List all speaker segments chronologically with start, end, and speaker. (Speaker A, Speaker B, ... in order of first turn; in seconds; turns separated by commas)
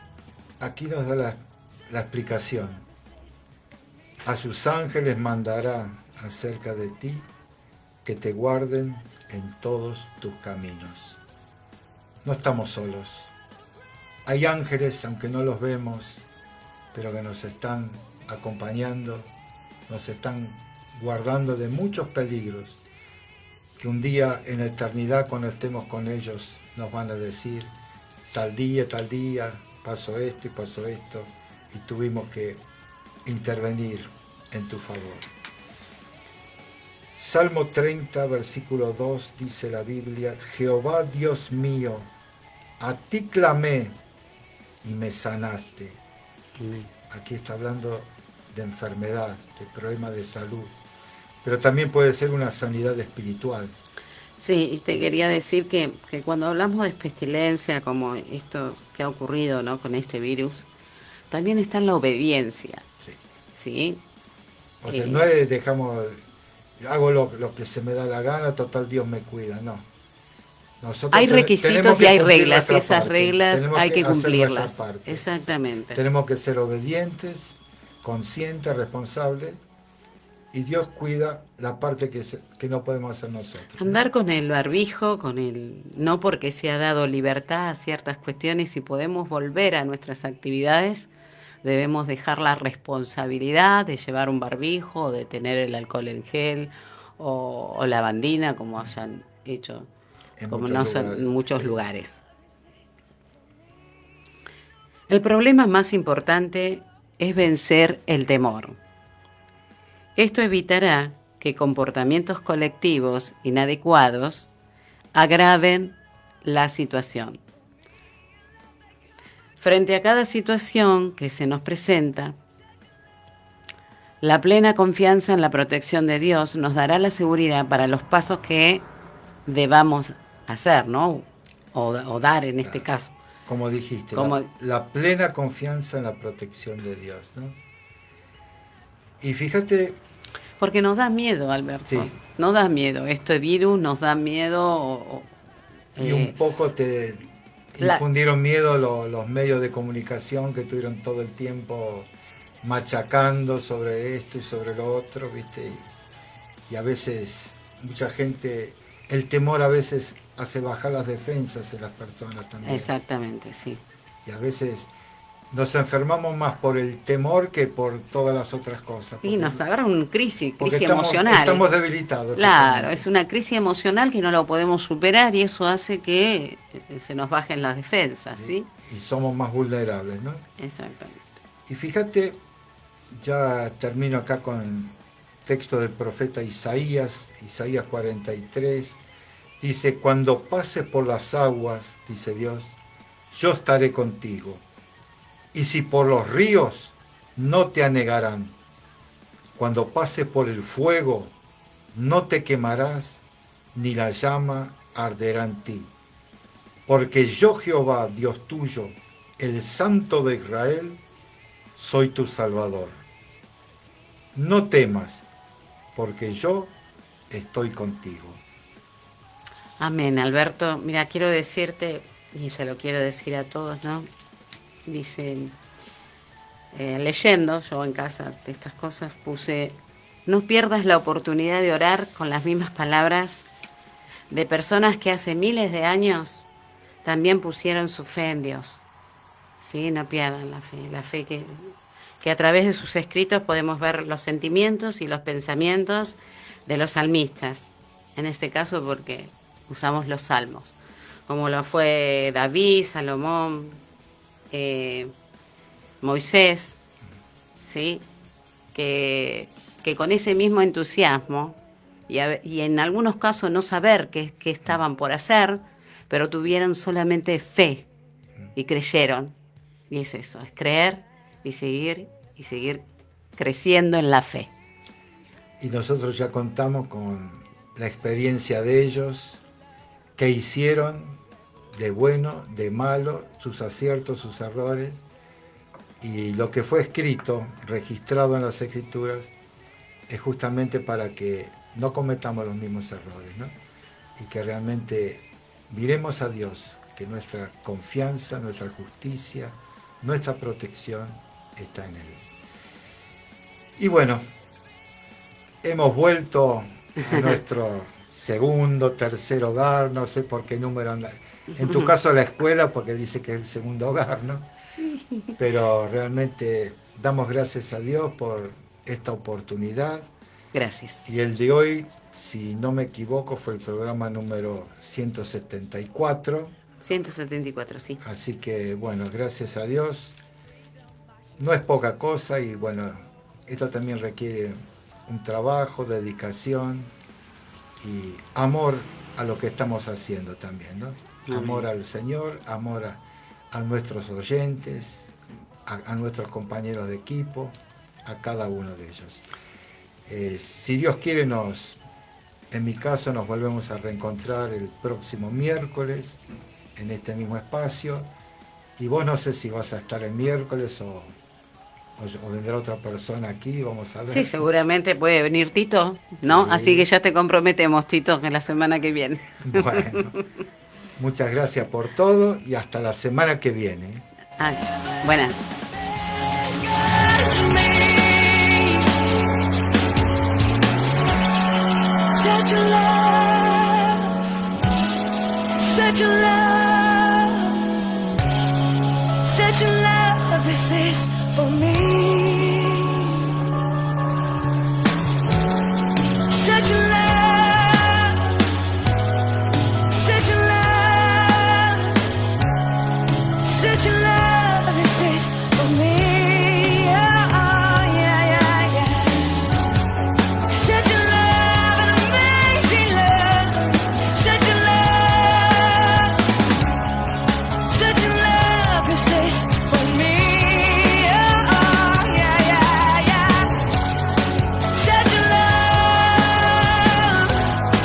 Speaker A: 0.6-2.9, Speaker A: 4.2-7.3, Speaker A: 8.0-11.2, Speaker A: 12.2-13.3, Speaker A: 14.2-16.2, Speaker A: 16.9-19.3, Speaker A: 19.9-22.8, Speaker A: 23.8-27.7, Speaker A: 28.3-32.6, Speaker A: 33.2-35.3, Speaker A: 37.1-42.1, Speaker A: 42.8-44.0, Speaker A: 44.8-46.0, Speaker B: 46.6-46.9, Speaker A: 47.1-50.7, Speaker A: 51.4-53.7, Speaker B: 54.4-60.7, Speaker B: 61.3-62.9, Speaker B: 63.6-64.0, Speaker A: 64.8-66.2, Speaker B: 64.9-65.2, Speaker A: 66.8-69.9, Speaker A: 70.8-79.6, Speaker B: 71.1-76.0, Speaker A: 80.5-84.0, Speaker B: 83.8-91.1, Speaker B: 91.6-99.9, Speaker A: 100.4-101.8, Speaker B: 100.5-102.2, Speaker B: 105.1-108.8, Speaker B: 110.2-114.5, Speaker B: 115.1-117.4, Speaker B: 119.6-122.4, Speaker B: 124.2-128.9, Speaker B: 129.4-133.2, Speaker A: 133.4-137.6, Speaker B: 134.1-134.5, Speaker A: 139.2-140.0, Speaker B: 140.6-145.3, Speaker A: 141.8-142.1, Speaker B: 145.9-146.3, Speaker A: 146.0-152.1, Speaker A: 152.6-155.9, Speaker A: 156.7-162.9, Speaker B: 162.7-163.8, Speaker A: 164.2-164.9, Speaker A: 165.5-169.6, Speaker B: 169.2-171.6, Speaker A: 170.6-173.1, Speaker B: 172.3-178.7, Speaker A: 178.4-180.5, Speaker B: 180.6-181.3, Speaker A: 181.7-182.4, Speaker A: 183.1-189.0, Speaker A: 189.6-192.8, Speaker A: 193.3-194.6, Speaker A: 195.5-198.6, Speaker A: 199.5-201.3, Speaker A: 201.9-205.9, Speaker A: 206.9-211.0, Speaker A: 211.8-213.0, Speaker A: 214.3-215.3, Speaker A: 215.9-216.7, Speaker A: 217.3-218.4, Speaker B: 219.8-224.1, Speaker B: 224.8-225.6, Speaker B: 226.7-233.5, Speaker B: 234.3-236.5, Speaker B: 237.0-238.8, Speaker B: 239.6-250.8, Speaker B: 251.3-253.8, Speaker B: 254.5-255.1, Speaker B: 256.0-256.8, Speaker B: 257.7-258.0, Speaker B: 258.7-267.9, Speaker B: 268.5-269.4, Speaker B: 269.9-274.5, Speaker A: 275.6-279.4, Speaker A: 280.1-281.2, Speaker A: 281.7-285.0, Speaker A: 286.0-289.3, Speaker A: 290.1-293.5, Speaker A: 294.1-302.2, Speaker A: 303.8-304.3, Speaker A: 305.6-314.5, Speaker B: 311.6-311.9, Speaker B: 314.8-315.3, Speaker A: 315.4-320.1, Speaker B: 320.5-321.0, Speaker A: 321.1-326.5, Speaker B: 326.8-328.0, Speaker A: 328.0-330.2, Speaker A: 331.4-336.9, Speaker A: 337.8-345.1, Speaker B: 341.3-341.7, Speaker A: 345.6-349.2, Speaker A: 350.1-351.8, Speaker A: 352.5-356.2, Speaker A: 356.8-358.1, Speaker A: 358.8-361.1, Speaker A: 362.0-364.3, Speaker B: 364.1-370.2, Speaker A: 366.2-366.9, Speaker A: 369.4-370.1, Speaker A: 371.0-374.1, Speaker B: 374.4-375.4, Speaker C: 377.3-378.8, Speaker C: 382.1-384.1, Speaker C: 385.6-387.6, Speaker C: 389.2-393.2, Speaker C: 396.3-398.3, Speaker C: 399.9-402.0, Speaker C: 403.4-409.4, Speaker C: 410.5-416.2, Speaker C: 417.7-423.5, Speaker C: 424.8-427.3